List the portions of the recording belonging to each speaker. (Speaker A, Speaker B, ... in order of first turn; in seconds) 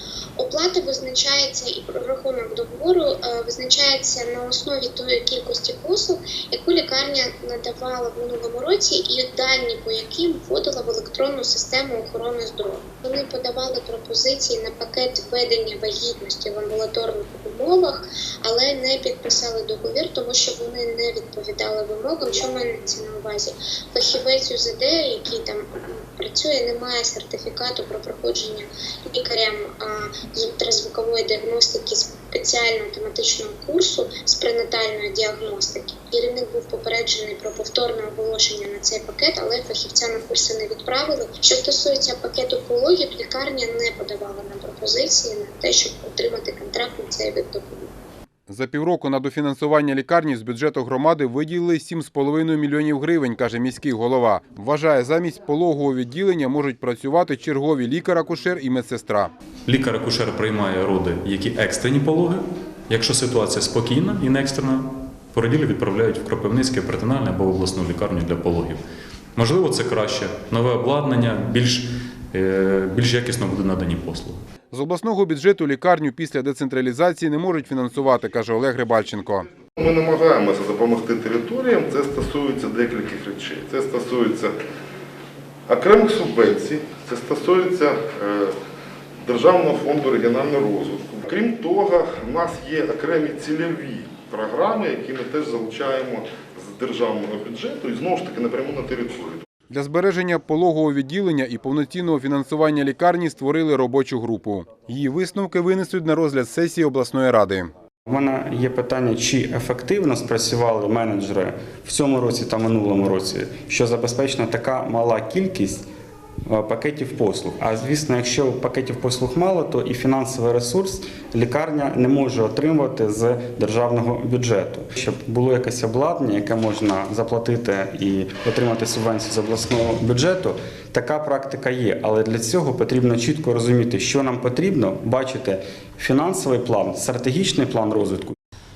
Speaker A: 0.4-47.9
Speaker B: 48.5-59.3, 74.7-79.4, 99.7-107.7
Speaker C: 59.7-68.8, 69.3-74.4
Speaker D: 79.8-84.5, 85.7-88.5, 89.2-99.4
Speaker E: 108.1-115.8, 116.5-138.3